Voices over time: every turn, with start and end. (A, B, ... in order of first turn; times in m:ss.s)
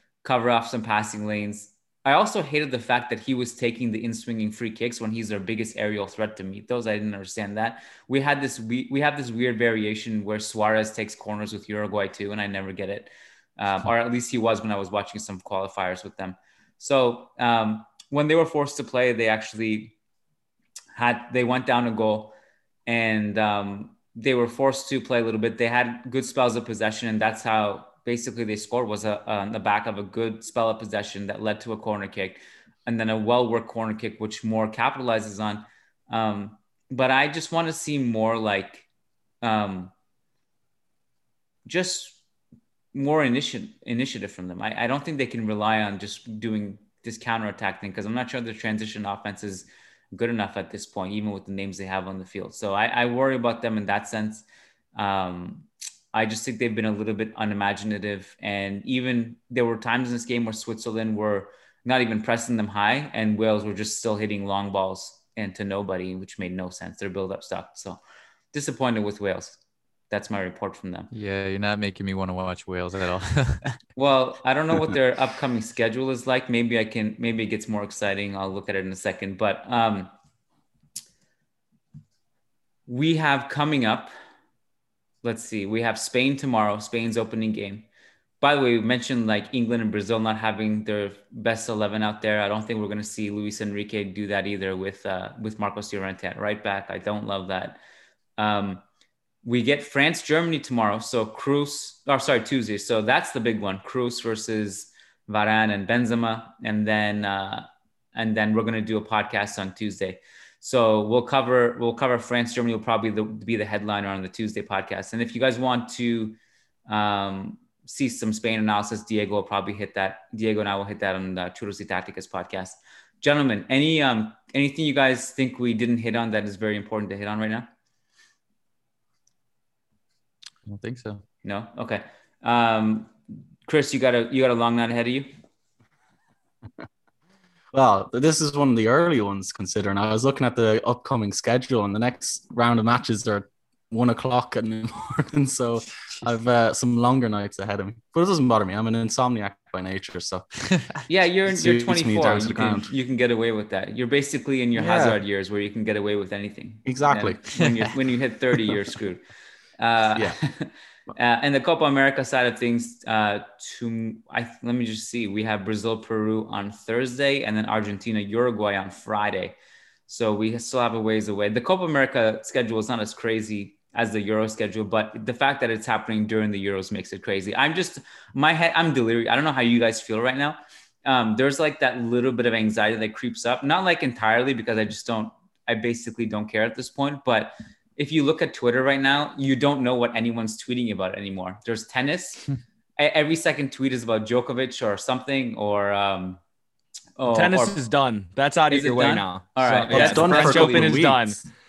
0:00.2-0:20.0 A
0:21.0-0:22.3 A
0:22.9-0:38.9 A
0:39.4-0:39.9 A
0:41.6-0:42.2 A
0:42.9-1:08.0 A
1:08.5-1:11.1 A
1:11.1-1:13.8 B
1:14.0-1:20.1 A
1:22.9-1:24.1 A
1:25.2-1:27.9 A
1:28.4-1:37.8 A
1:38.4-1:38.8 A
1:39.4-2:07.7 A
2:10.6-2:11.2 B
2:11.4-2:13.1 A
2:13.7-2:15.3 A
2:17.7-2:30.5 C
2:31.1-2:39.2 A
2:31.5-2:32.9 C
2:34.7-2:35.2 C
2:36.9-2:37.4 C
2:39.8-2:49.6 A
2:50.1-3:12.4 A
3:13.0-3:16.4 A
3:17.2-3:17.8 A
3:17.3-3:21.4 D
3:18.7-3:21.1 A
3:19.9-3:21.4 C